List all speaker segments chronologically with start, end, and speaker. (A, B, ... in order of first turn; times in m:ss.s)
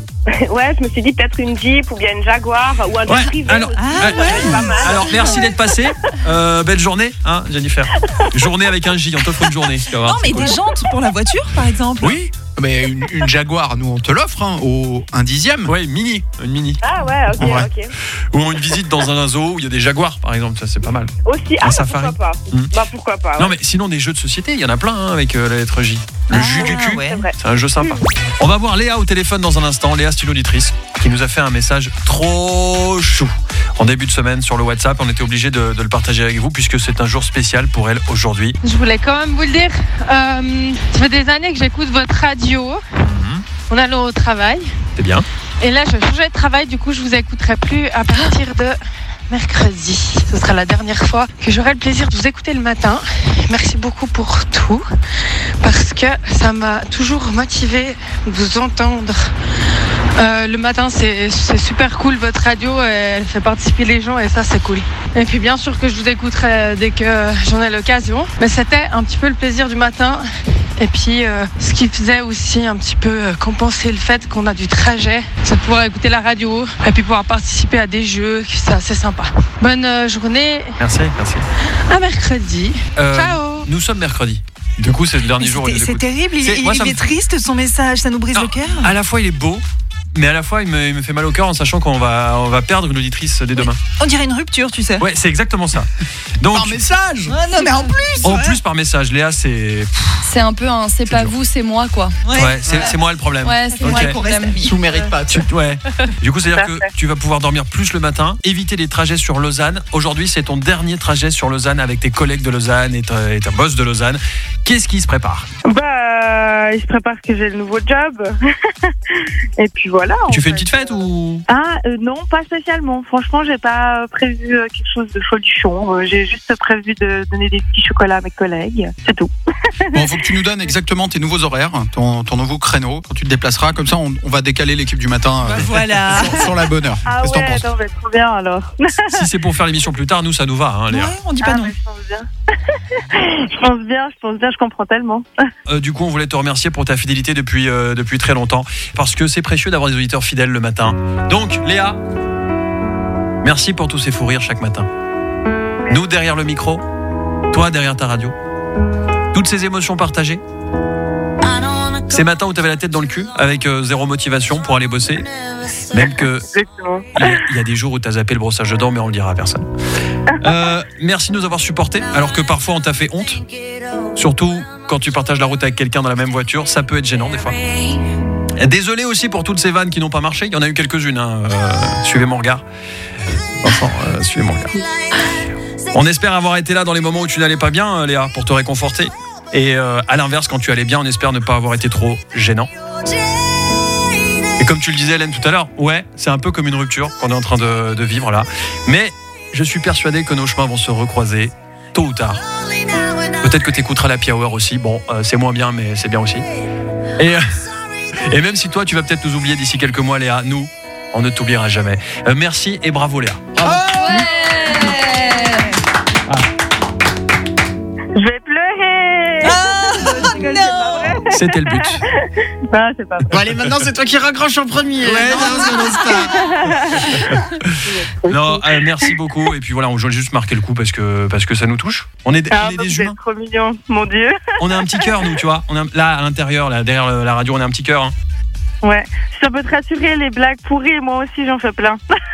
0:00.3-0:05.6 A
0:03.0-0:10.5 B
0:03.8-0:05.4 C
0:10.0-0:12.2 C
0:12.0-0:12.3 B
0:12.5-0:15.9 D
0:15.6-0:16.8 B
0:16.8-0:17.9 A
0:17.4-0:17.7 B
0:17.4-0:17.7 D
0:18.3-0:22.8 B
0:21.2-0:23.5 A
0:23.4-0:38.6 B
0:26.3-0:27.2 C
0:27.0-0:28.0 A
0:38.6-0:42.8 E
0:43.1-0:43.4 B
0:43.7-0:44.8 E
0:45.0-0:45.2 B
0:45.6-1:20.7 E
1:20.8-1:21.5 B
1:21.8-1:23.7 E
1:23.0-1:27.0 B
1:25.4-1:29.0 C
1:28.3-1:33.8 B
1:33.6-1:35.0 C
1:35.0-1:36.8 B
1:36.5-1:37.4 D
1:37.3-1:38.6 C
1:38.2-1:40.0 B
1:40.2-1:42.2 F
1:41.1-1:41.4 B
1:42.2-1:42.9 C
1:42.3-1:44.2 B
1:42.7-1:42.9 D
1:43.4-1:44.6 F
1:43.7-1:45.1 C
1:43.8-1:45.5 D
1:45.3-1:55.5 B
1:46.5-1:46.9 A
1:55.6-2:10.0 A
2:00.3-2:01.4 B
2:09.9-2:17.6 D
2:15.4-2:16.6 C
2:17.1-2:19.2 A
2:19.1-2:21.1 B
2:20.9-2:21.7 C
2:21.4-2:22.3 A
2:23.0-2:25.4 A
2:25.7-2:32.0 B
2:33.4-2:34.9 B
2:35.9-2:36.8 B
2:37.5-2:38.3 B
2:39.3-2:40.4 B
2:42.1-2:45.3 B
2:45.9-2:46.5 B
2:46.5-2:47.2 A
2:47.1-2:49.6 B
2:50.4-2:53.4 B
2:54.2-2:57.6 B
2:58.6-3:02.6 B
3:03.6-3:04.8 B
3:05.9-3:12.7 B
3:14.6-3:22.4 B
3:23.4-3:26.4 B
3:28.2-3:33.6 B
3:33.6-3:34.3 D
3:33.9-3:35.6 F
3:34.0-3:35.7 C
3:38.1-3:39.6 A
3:39.4-3:41.2 C
3:40.2-3:41.3 A
3:41.3-3:42.0 B
3:42.1-3:43.3 A
3:43.3-3:46.3 D
3:45.4-3:45.7 C
3:45.6-3:46.1 B
3:46.2-3:48.9 A
3:48.3-3:53.2 B
3:52.5-3:55.2 A
3:54.6-3:58.1 B
3:58.8-4:02.0 A